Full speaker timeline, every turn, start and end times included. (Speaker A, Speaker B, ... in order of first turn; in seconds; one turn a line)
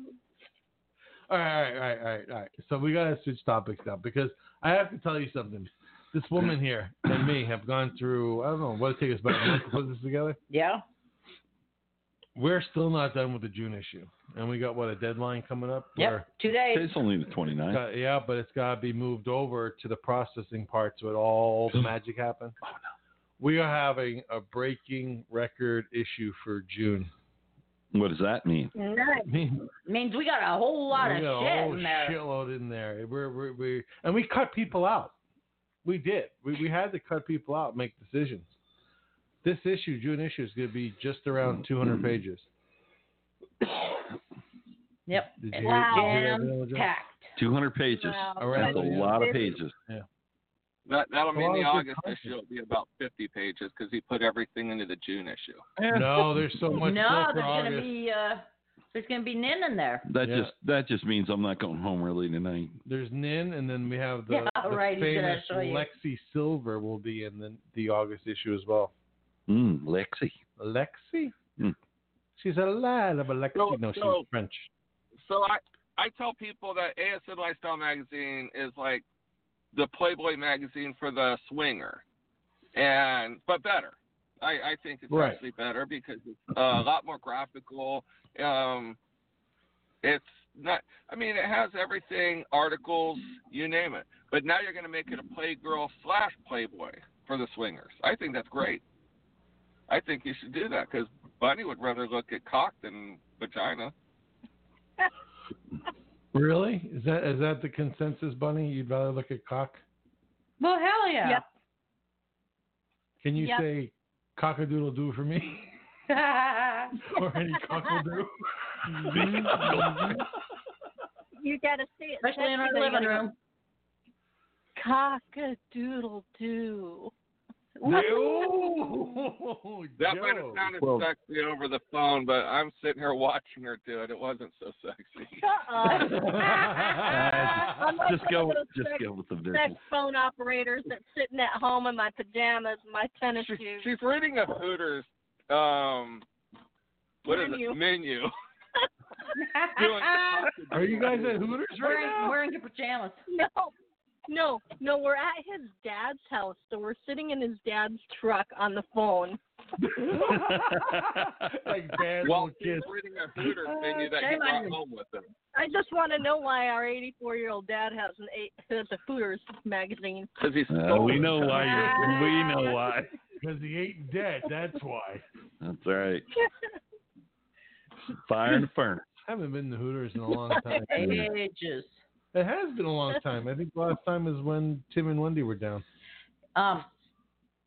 Speaker A: 1.3-10.4
Speaker B: 10.5-10.8
Speaker A: 12.3-16.2
Speaker B: 15.9-16.9
Speaker C: 16.7-17.8
Speaker A: 17.7-22.6
Speaker A: 23.4-27.1
Speaker C: 27.9-28.7
Speaker D: 28.7-29.3
Speaker A: 29.3-29.7
Speaker B: 29.9-32.2
Speaker A: 30.9-35.1
Speaker A: 35.8-38.5
Speaker A: 39.4-42.5
Speaker B: 45.1-47.3
Speaker A: 45.4-46.9
Speaker D: 45.6-46.3
Speaker C: 47.4-49.7
Speaker D: 48.0-49.5
Speaker A: 48.4-50.0
Speaker E: 50.9-55.6
Speaker A: 51.3-52.3
Speaker C: 55.8-56.8
Speaker A: 55.8-57.9
Speaker B: 56.8-60.0
Speaker C: 60.1-62.8
Speaker A: 60.2-60.5
Speaker A: 62.9-68.9
Speaker B: 64.3-65.9
Speaker C: 69.5-70.4
Speaker A: 70.6-71.3
Speaker A: 72.4-74.7
Speaker E: 73.5-74.2
Speaker E: 75.2-79.0
Speaker E: 79.7-82.0
Speaker E: 82.7-89.0
Speaker A: 85.1-85.4
Speaker E: 90.0-98.8
Speaker E: 99.9-103.9
Speaker A: 106.3-109.8
Speaker B: 110.6-111.4
Speaker A: 113.2-115.6
Speaker D: 113.4-113.6
Speaker B: 116.1-117.0
Speaker A: 117.0-120.2
Speaker C: 119.1-120.2
Speaker B: 119.1-120.0
Speaker D: 121.4-123.3
Speaker B: 122.2-123.3
Speaker D: 124.8-127.1
Speaker B: 127.8-128.5
Speaker A: 127.8-130.6
Speaker E: 130.0-135.4
Speaker C: 130.8-131.1
Speaker D: 135.4-143.9
Speaker A: 135.9-137.8
Speaker B: 136.2-136.5
Speaker C: 137.0-139.8
Speaker E: 143.3-146.2
Speaker E: 147.2-148.3
Speaker D: 147.2-147.8
Speaker B: 149.3-150.5
Speaker E: 149.8-151.6
Speaker A: 150.7-152.3
Speaker B: 151.8-153.2
Speaker D: 153.3-153.7
Speaker D: 154.3-159.4
Speaker A: 159.8-162.9
Speaker C: 160.3-161.5
Speaker E: 162.2-165.3
Speaker B: 163.6-164.8
Speaker D: 165.5-170.3
Speaker E: 170.4-171.9
Speaker C: 170.7-173.1
Speaker A: 171.1-172.3
Speaker B: 171.5-172.4
Speaker D: 171.7-172.8
Speaker A: 173.4-175.2
Speaker C: 175.6-176.2
Speaker C: 178.3-179.1
Speaker A: 179.2-181.3
Speaker D: 180.5-180.8
Speaker B: 180.9-182.0
Speaker C: 181.0-181.3
Speaker A: 182.3-185.8
Speaker B: 186.5-186.9